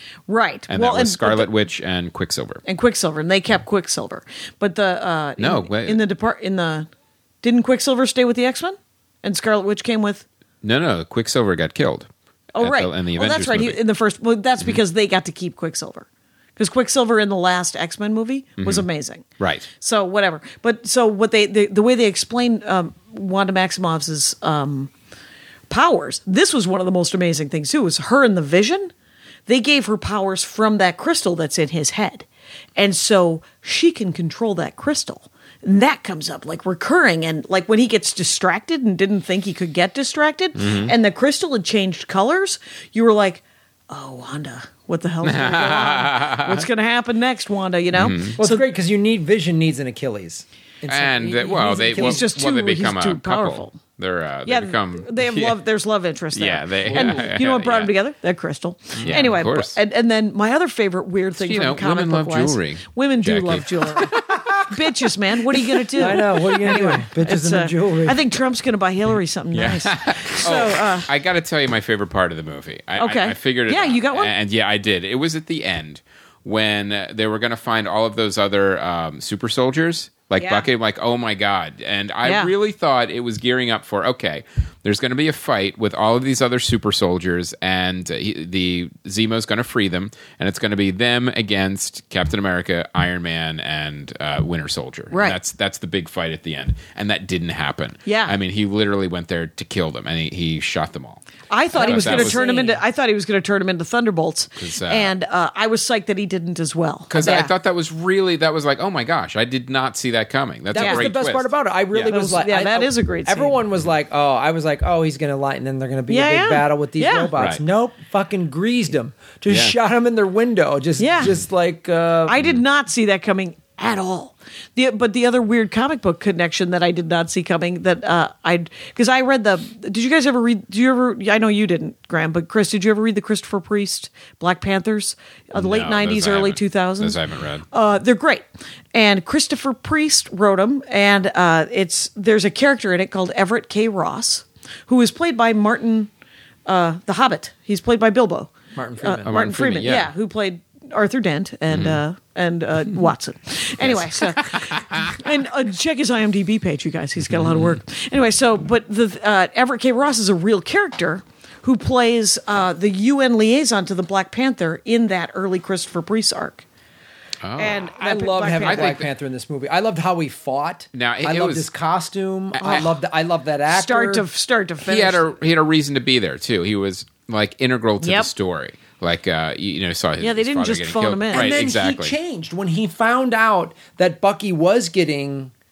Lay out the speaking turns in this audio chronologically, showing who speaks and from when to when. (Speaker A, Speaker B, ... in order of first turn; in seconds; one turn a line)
Speaker A: 0.3-1.5
Speaker B: 0.7-2.6
Speaker A: 2.6-6.9
Speaker B: 5.4-6.0
Speaker A: 7.4-10.2
Speaker B: 10.6-12.1
Speaker A: 12.5-19.2
Speaker B: 12.6-13.8
Speaker B: 18.6-18.9
Speaker B: 19.4-19.7
Speaker A: 19.8-24.9
Speaker A: 25.7-28.9
Speaker A: 29.5-48.6
Speaker B: 40.6-40.9
Speaker B: 45.2-46.6
Speaker B: 47.9-48.4
Speaker C: 48.4-52.2
Speaker B: 50.9-55.6
Speaker A: 51.4-53.8
Speaker A: 54.5-71.1
Speaker B: 56.3-57.9
Speaker C: 56.8-57.3
Speaker B: 59.0-59.8
Speaker B: 61.4-64.2
Speaker C: 66.0-68.2
Speaker B: 69.5-101.2
Speaker A: 73.0-74.3
Speaker A: 80.4-80.7
Speaker A: 82.2-82.5
Speaker A: 95.1-95.4
Speaker A: 98.0-98.3
Speaker A: 101.5-107.5
Speaker C: 101.7-102.7
Speaker B: 101.7-102.5
Speaker B: 104.5-105.1
Speaker B: 107.1-112.1
Speaker C: 110.7-122.4
Speaker A: 110.8-111.1
Speaker A: 112.0-113.6
Speaker A: 116.1-117.3
Speaker B: 119.5-119.7
Speaker A: 121.0-121.3
Speaker A: 122.2-137.2
Speaker B: 135.5-137.6
Speaker A: 137.7-146.1
Speaker A: 146.7-166.6
Speaker C: 148.7-149.4
Speaker B: 149.2-150.1
Speaker B: 151.7-152.0
Speaker B: 153.8-155.2
Speaker B: 157.2-157.8
Speaker B: 167.4-167.9
Speaker A: 167.6-169.0
Speaker C: 167.8-174.2
Speaker B: 168.6-169.1
Speaker B: 170.9-171.7
Speaker B: 172.6-172.9
Speaker A: 172.6-172.9
Speaker A: 173.7-175.2
Speaker B: 174.8-182.1
Speaker A: 178.0-178.3
Speaker A: 180.2-181.5
Speaker C: 181.3-185.5